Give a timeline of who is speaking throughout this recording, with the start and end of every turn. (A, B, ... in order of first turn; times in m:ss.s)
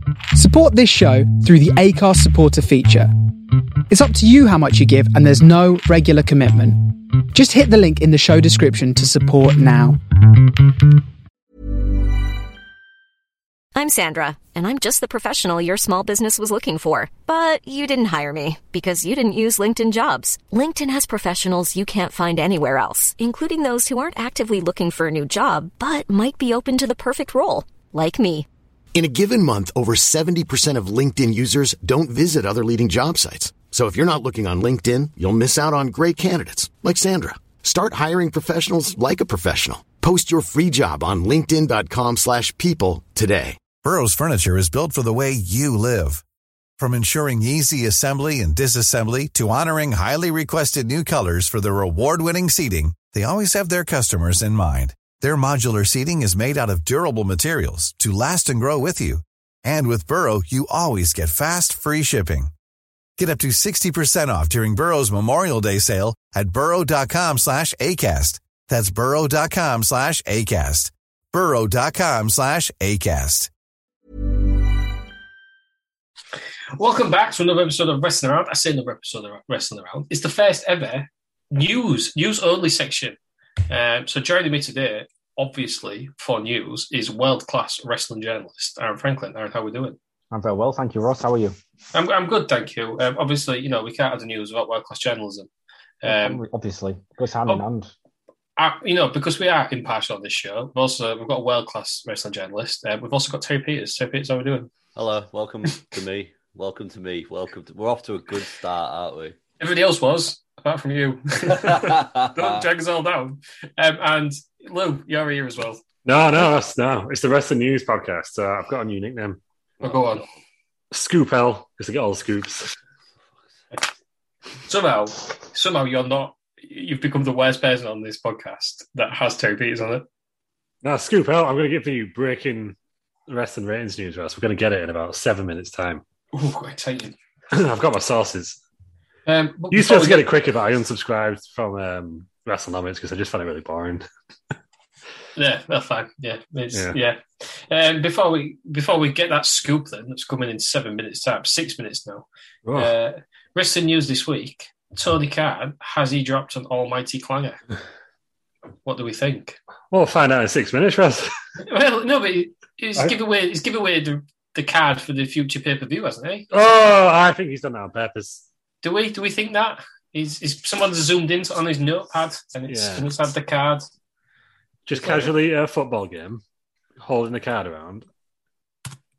0:00.3-0:03.1 A
0:03.9-0:10.0 A
0:13.8-0:28.5 B
0:28.9-0:43.7 C
0:43.8-0:46.2 D
0:46.8-1:02.5 D
1:03.2-1:13.5 D
1:16.8-1:23.2 E
1:23.7-1:30.0 E
1:30.3-1:31.6 F
1:31.9-1:35.5 E
1:36.0-1:36.4 E
1:36.0-1:37.9 F
1:38.6-1:44.7 E
1:45.0-1:49.4 G
1:49.6-1:55.8 E
1:51.7-1:52.6 G
1:56.0-1:59.4 H
1:59.8-2:00.3 E
2:00.9-2:02.8 H
2:04.7-2:10.0 E
2:10.8-2:12.8 H
2:13.3-2:16.0 H
2:16.3-2:17.2 E
2:17.5-2:18.6 H
2:19.3-2:20.3 E
2:19.7-2:24.1 H
2:25.4-2:37.6 E
2:32.6-2:32.9 H
2:38.8-2:39.6 E
2:39.9-2:41.3 H
2:41.6-2:46.5 E
2:46.5-2:48.4 H
2:48.8-2:53.9 E
2:52.7-2:53.1 H
2:54.9-2:56.4 H
2:54.9-2:55.4 E
2:57.0-2:58.1 H